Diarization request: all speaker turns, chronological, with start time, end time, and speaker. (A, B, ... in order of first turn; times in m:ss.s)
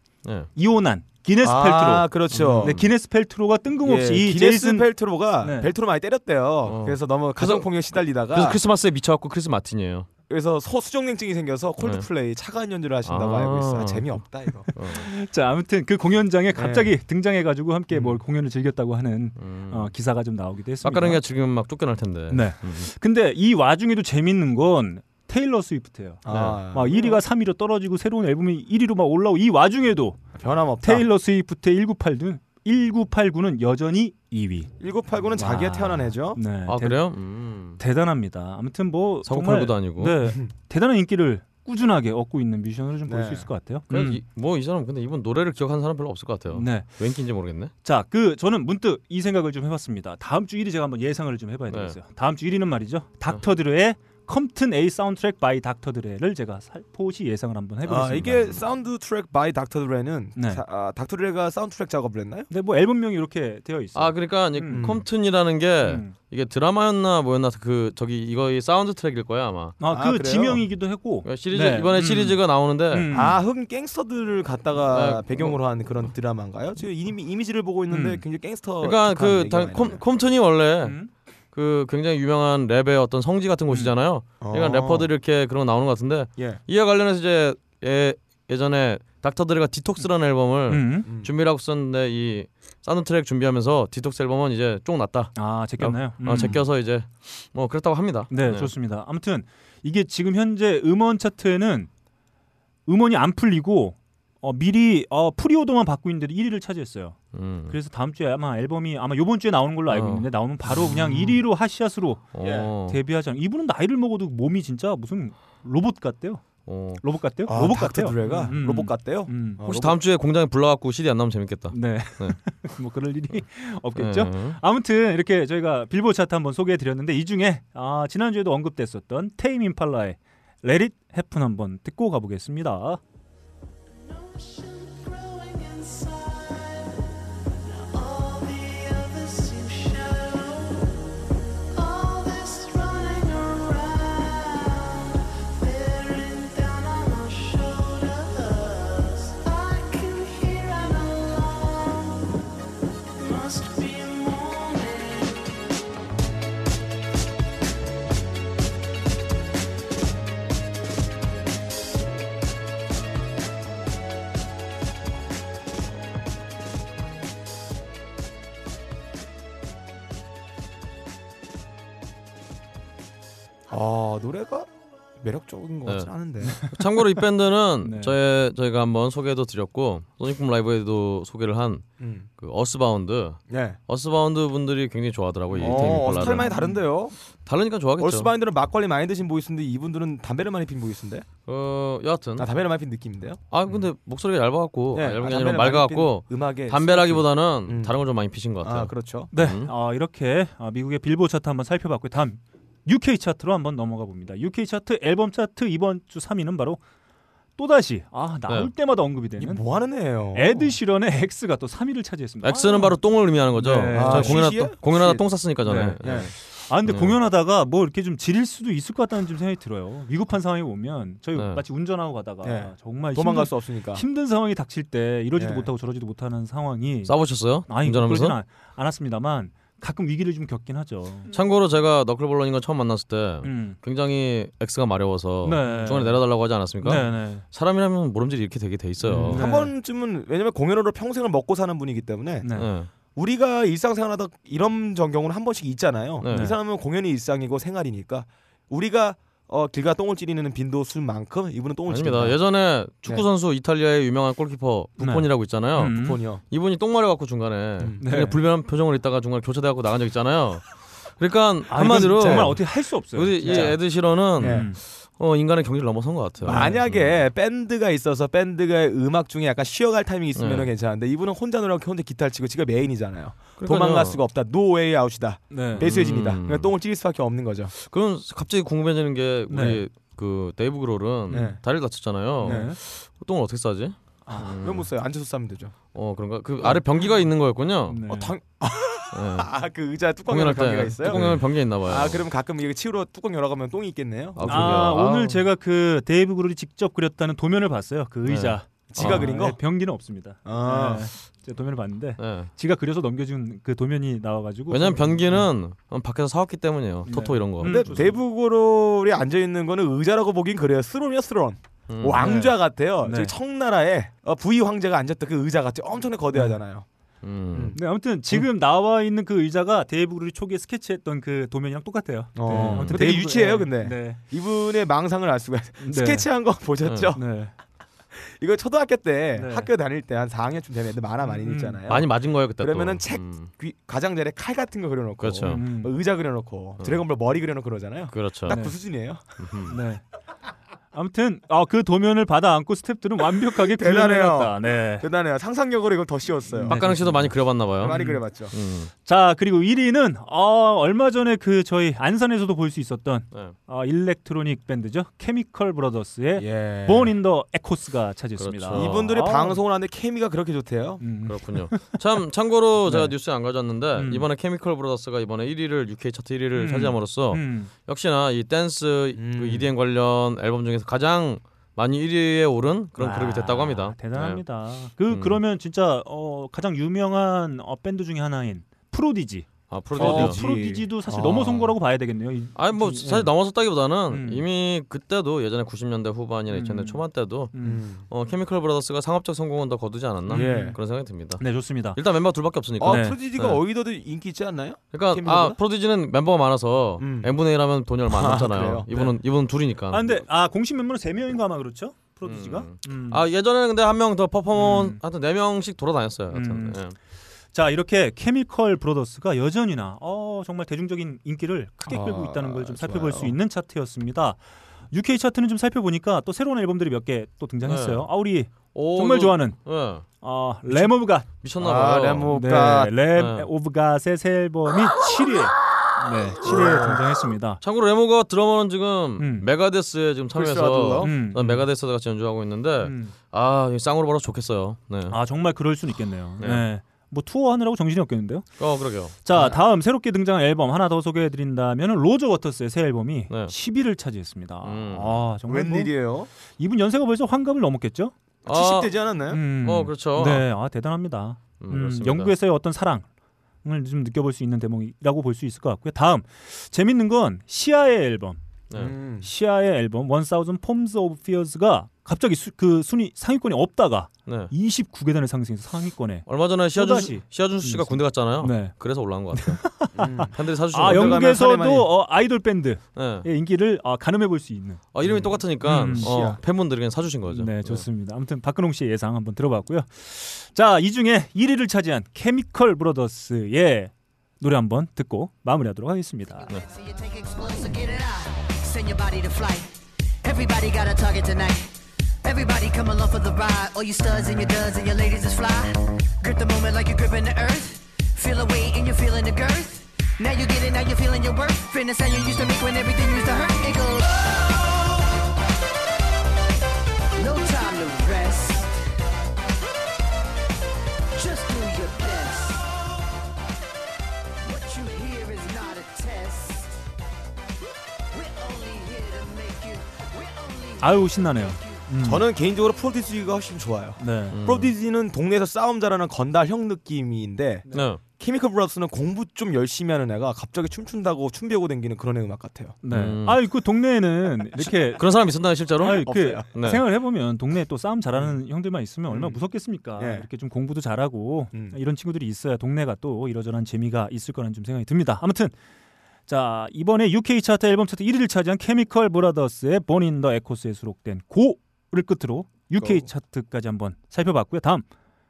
0:00.2-0:00.5 A
0:00.6-0:04.9 B
0:01.4-0:02.8 C
0:02.3-0:02.9 A
0:03.8-0:08.6 C
0:05.4-0:05.7 B
0:06.7-0:10.1 A
0:10.3-0:14.7 C
0:11.8-0:12.1 A
0:13.0-0:14.2 A
0:14.7-0:15.1 A
0:14.8-0:21.2 B
0:16.5-0:17.0 C
0:17.9-0:18.2 C
0:19.4-0:19.9 A
0:20.8-0:22.9 A
0:22.3-0:30.2 B
0:26.2-0:27.2 C
0:26.3-0:26.6 A
0:30.4-0:31.1 C
0:30.8-0:34.7 B
0:34.8-0:36.4 C
0:35.4-0:37.0 B
0:36.7-0:37.8 A
0:37.8-0:44.2 B
0:39.3-0:40.2 A
0:43.1-0:43.5 C
0:43.9-0:47.7 A
0:46.5-0:46.9 B
0:47.8-0:58.6 B
0:51.7-0:52.0 A
0:57.9-1:02.5 C
1:00.4-1:00.6 B
1:02.5-1:04.8 B
1:04.0-1:09.8 A
1:04.7-1:05.1 C
1:05.8-1:06.1 B
1:09.8-1:12.4 B
1:09.9-1:10.6 C
1:11.2-1:13.1 A
1:12.9-1:13.4 B
1:13.1-1:20.0 C
1:14.9-1:15.6 A
1:17.9-1:18.2 B
1:18.8-1:21.0 A
1:20.8-1:21.1 B
1:21.5-1:38.7 A
1:24.4-1:25.1 C
1:30.7-1:31.1 B
1:31.0-1:31.3 C
1:35.4-1:36.6 B
1:38.3-1:41.9 B
1:42.9-1:47.2 B
1:47.3-1:47.8 A
1:47.7-1:56.4 B
1:49.9-1:51.3 A
1:52.3-1:53.0 A
1:56.7-1:57.0 A
1:57.0-1:59.6 B
1:57.5-2:00.0 C
1:59.6-2:02.4 A
2:01.7-2:13.0 B
2:04.0-2:04.6 A
2:14.0-2:21.1 D
2:21.7-2:32.5 D
2:33.2-2:35.7 D
2:53.7-2:54.7 C
2:55.2-2:56.6 C
2:56.5-2:56.8 B
2:56.6-3:01.8 A
2:57.8-2:58.2 B
3:02.0-3:02.3 C
3:02.4-3:06.5 A
3:03.5-3:03.8 C
3:05.6-3:06.8 B
3:05.6-3:07.1 C
3:07.4-3:08.3 A
3:08.0-3:11.3 C
3:11.5-3:12.5 A
3:12.4-3:13.4 C
3:13.5-3:19.7 A
3:14.9-3:17.9 C
3:18.6-3:19.3 C
3:19.3-3:26.8 B
3:27.6-3:29.6 B
3:29.4-3:30.7 C
3:30.3-3:33.0 B
3:32.4-3:36.3 A
3:33.6-3:34.4 B
3:33.9-3:35.2 C
3:35.7-3:47.1 B
3:36.0-3:36.3 C
3:36.8-3:37.2 A
3:41.4-3:41.6 A
3:42.4-3:44.0 C
3:45.4-3:45.7 C
3:47.1-3:48.4 A
3:47.7-3:51.3 B
3:51.3-3:59.4 A
3:53.4-3:53.8 B
3:55.4-3:56.2 B
3:56.8-3:57.4 B
3:59.0-3:59.7 B
3:59.3-4:02.5 C
4:02.4-4:02.7 B
4:02.6-4:02.9 A
4:03.2-4:12.4 C
4:06.2-4:06.5 A
4:06.3-4:06.6 B
4:11.9-4:27.2 A
4:15.0-4:16.2 B
4:15.9-4:16.4 C
4:18.0-4:18.4 B
4:21.7-4:23.8 B
4:22.2-4:22.6 C
4:23.5-4:23.8 C
4:24.4-4:24.7 C
4:24.4-4:24.8 B
4:26.4-4:37.7 C
4:26.5-4:26.8 B
4:30.4-4:30.7 A
4:33.6-4:34.2 A
4:35.5-4:35.9 B
4:35.8-4:36.7 A
4:37.8-4:44.9 A
4:39.5-4:39.8 B
4:41.3-4:41.6 C
4:42.4-4:42.7 C
4:42.4-4:42.8 B
4:44.3-4:44.6 B
4:44.6-4:45.8 C
4:45.9-4:48.0 A
4:47.9-4:48.4 B
4:48.1-4:55.0 C
4:49.1-4:49.5 A
4:50.3-4:52.2 A
4:51.1-4:51.4 B
4:54.4-4:55.4 A
4:54.5-5:05.5 B
4:58.3-4:59.3 A
4:58.9-4:59.6 C
5:00.5-5:01.1 C
5:02.2-5:02.5 A
5:04.7-5:08.1 A
5:07.1-5:08.1 B
5:07.6-5:16.9 C
5:11.9-5:12.4 A
5:12.2-5:13.3 B
5:17.2-5:17.8 A
5:17.5-5:17.8 C
5:17.8-5:24.2 B
5:22.4-5:27.2 C
5:22.5-5:23.0 A
5:25.8-5:26.3 B
5:26.8-5:27.1 A
5:27.2-5:27.5 B
5:28.1-5:39.5 C
5:29.4-5:29.7 B
5:31.2-5:31.8 B
5:31.9-5:33.5 A
5:35.2-5:35.6 A
5:35.4-5:35.9 B
5:38.1-5:38.6 A
5:38.5-5:38.7 B
5:39.4-5:39.8 A
5:39.7-5:40.0 B
5:40.9-5:45.1 B
5:43.5-5:46.8 C
5:46.6-5:48.2 B
5:46.7-5:48.9 A
5:47.8-5:48.5 C
5:49.0-5:59.6 B
5:56.4-5:57.2 C
5:58.4-5:59.1 A
5:58.7-6:01.0 C
6:01.0-6:02.0 B
6:01.3-6:14.4 A
6:02.8-6:03.1 B
6:04.0-6:04.3 B
6:06.6-6:07.7 B
6:09.2-6:09.7 C
6:13.0-6:23.3 B
6:15.1-6:15.4 A
6:19.7-6:20.4 A
6:19.9-6:21.7 C
6:22.6-6:33.6 A
6:24.1-6:24.4 B
6:26.5-6:27.0 B
6:27.5-6:27.8 B
6:27.6-6:28.1 C
6:30.3-6:30.8 B
6:30.3-6:30.8 C
6:31.4-6:32.0 B
6:32.8-6:35.6 C
6:32.9-6:33.2 B
6:34.9-6:40.1 A
6:37.0-6:37.3 C
6:38.1-6:39.1 C
6:39.9-6:43.2 B
6:42.2-6:47.0 A
6:44.6-6:45.0 B
6:46.3-6:46.8 B
6:47.5-6:54.4 B
6:51.9-6:53.4 C
6:54.9-6:59.6 B
6:57.6-6:58.1 A
6:58.7-7:00.0 A
7:00.2-7:01.3 B
7:00.7-7:02.3 A
7:01.6-7:03.0 C
7:02.3-7:07.6 B
7:03.1-7:03.5 A
7:06.4-7:07.0 C
7:06.5-7:07.0 A
7:07.6-7:15.2 A
7:09.2-7:09.5 B
7:10.3-7:11.1 C
7:11.0-7:11.6 B
7:12.8-7:13.1 B
7:15.1-7:18.5 B
7:18.6-7:19.4 A
7:19.2-7:25.9 B
7:24.6-7:25.2 A
7:25.5-7:26.3 C
7:26.6-7:28.1 B
7:28.4-7:28.9 A
7:28.5-7:29.4 C
7:29.3-7:33.1 B
7:29.6-7:30.5 A
7:31.6-7:32.3 A
7:33.6-7:38.4 B
7:38.8-7:39.3 C
7:39.2-7:48.7 B
7:44.3-7:44.5 A
7:46.3-7:49.7 A
7:49.3-7:54.8 B
7:50.0-7:51.9 C
7:50.3-7:51.3 A
7:53.0-7:53.3 A
7:54.9-7:57.8 A
7:55.0-7:56.4 C
7:55.6-7:56.1 B
7:57.3-8:06.5 B
8:06.4-8:24.7 E
8:27.2-8:28.8 E
8:31.2-8:32.7 E
8:34.4-8:36.8 E
8:38.1-8:41.8 E
8:40.8-8:42.2 B
8:42.0-8:52.8 C
8:44.0-8:44.4 B
8:44.3-8:44.7 A
8:47.7-8:48.0 A
8:52.8-8:55.0 B
8:52.9-8:53.4 A
8:55.0-8:56.8 A
8:55.8-9:05.5 B
8:55.8-8:56.5 C
8:59.1-8:59.4 C
9:00.0-9:00.3 C
9:06.3-9:14.8 B